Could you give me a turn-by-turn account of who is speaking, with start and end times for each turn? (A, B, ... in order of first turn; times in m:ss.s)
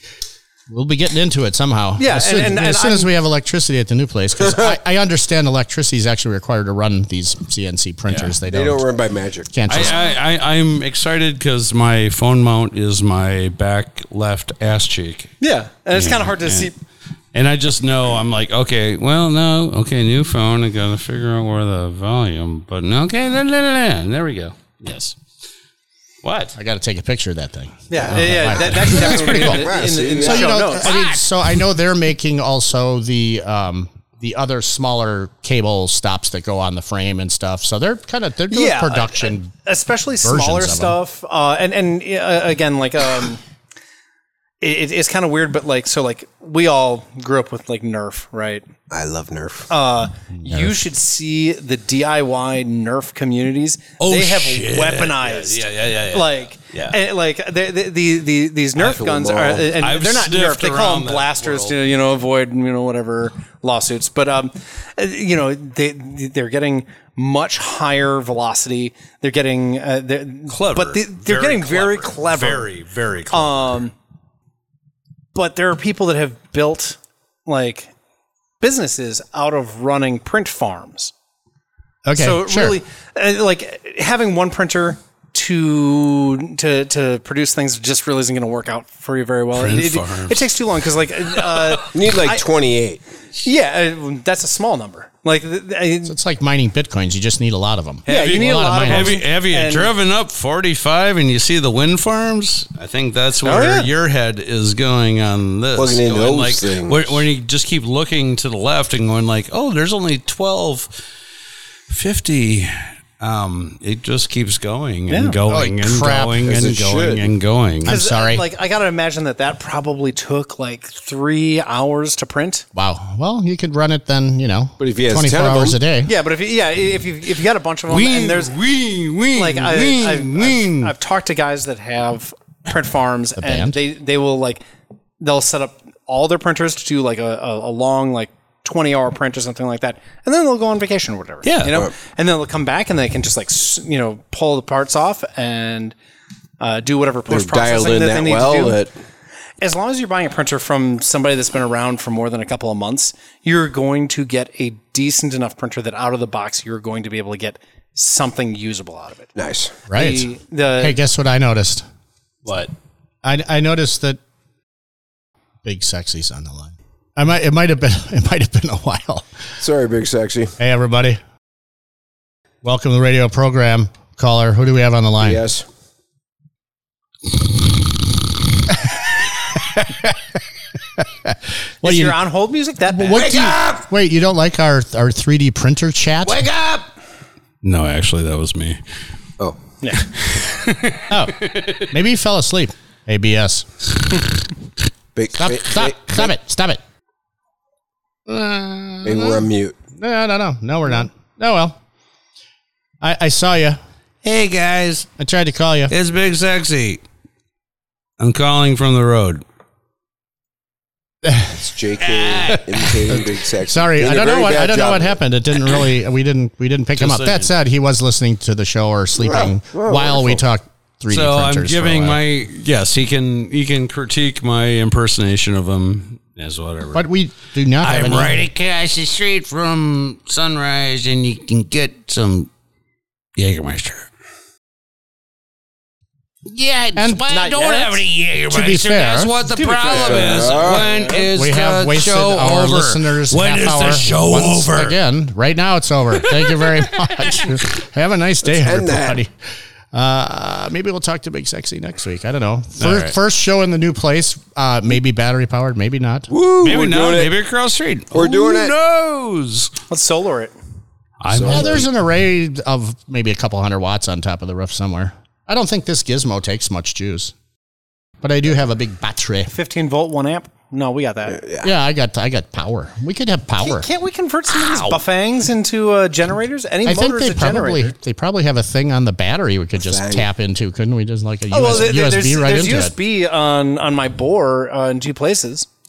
0:00.7-0:08.8 A
0:02.0-0:03.1 B
0:08.5-0:09.5 C
0:09.5-0:09.9 A
0:09.7-0:15.4 D
0:15.4-0:16.8 B
0:15.9-0:16.7 D
0:17.3-0:25.2 D
0:26.2-0:26.6 D
0:26.6-0:39.5 A
0:27.9-0:30.9 B
0:28.0-0:30.5 C
0:30.7-0:31.4 D
0:38.5-0:43.4 B
0:40.2-0:41.0 A
0:44.6-0:48.6 B
0:48.9-0:49.7 C
0:49.7-1:12.7 B
0:50.4-0:50.8 A
0:54.0-0:57.0 D
0:58.8-0:59.7 C
0:59.6-1:01.7 D
1:10.5-1:13.8 D
1:13.3-1:13.9 B
1:15.3-1:17.9 B
1:18.6-1:21.1 B
1:22.0-1:22.8 A
1:22.2-1:32.4 B
1:29.5-1:30.5 D
1:31.9-1:33.0 C
1:33.4-1:36.2 B
1:36.0-1:39.2 A
1:38.1-1:39.9 B
1:38.1-1:51.0 D
1:43.4-1:43.9 B
1:45.8-1:47.2 C
1:51.9-1:58.0 D
1:55.1-1:55.4 B
1:55.5-1:56.4 A
1:56.4-1:57.3 C
1:57.8-1:58.4 A
1:57.9-2:02.6 B
2:02.7-2:06.1 A
2:04.8-2:05.8 C
2:06.1-2:08.5 B
2:07.9-2:10.9 D
2:09.4-2:14.6 B
2:13.4-2:13.8 A
2:15.2-2:26.0 B
2:21.4-2:21.8 D
2:26.6-2:28.8 B
2:27.3-2:28.9 C
2:29.6-2:39.3 B
2:39.4-2:39.9 C
2:39.9-2:41.8 A
2:39.9-2:41.0 B
2:42.4-2:42.7 D
2:43.2-2:44.2 A
2:45.6-2:49.3 A
2:49.6-2:50.6 C
2:50.6-2:51.2 A
2:52.6-2:55.4 A
2:55.2-2:55.6 C
2:59.5-3:00.2 A
3:01.0-3:02.2 A
3:01.8-3:03.3 B
3:02.9-3:06.5 A
3:03.1-3:03.8 D
3:06.2-3:06.9 D
3:07.6-3:08.8 D
3:09.9-3:11.9 D
3:11.1-3:14.2 A
3:15.2-3:16.3 C
3:15.4-3:16.8 A
3:18.3-3:19.4 A
3:19.0-3:19.8 C
3:20.0-3:21.8 A
3:23.0-3:23.8 A
3:24.2-3:25.1 D
3:25.2-3:25.9 A
3:25.9-3:27.0 D
3:28.2-3:29.4 D
3:31.2-3:31.6 A
3:31.5-3:35.2 C
3:32.2-3:32.9 D
3:33.1-3:42.2 A
3:37.0-3:37.5 D
3:39.2-3:40.4 C
3:41.1-3:47.0 D
3:46.9-3:48.4 A
3:47.8-3:52.5 D
3:53.4-3:54.1 D
3:56.5-4:05.0 D
3:57.0-3:57.2 A
3:57.3-3:58.0 B
3:58.5-3:59.3 A
3:59.5-4:01.3 B
3:59.9-4:00.9 C
4:01.3-4:09.3 A
4:06.2-4:07.5 D
4:08.5-4:09.2 C
4:09.9-4:16.3 A
4:12.8-4:13.1 D
4:16.3-4:17.3 C
4:16.6-4:19.8 D
4:18.1-4:18.7 C
4:19.9-4:20.6 B
4:21.2-4:21.9 D
4:21.3-4:21.8 C
4:21.5-4:27.3 A
4:28.2-4:29.5 A
4:29.5-4:31.4 B
4:31.3-4:31.7 C
4:31.6-4:33.9 A
4:33.6-4:37.9 B
4:34.5-4:35.0 D
4:36.8-4:42.9 A
4:39.8-4:40.3 C
4:41.5-4:45.7 B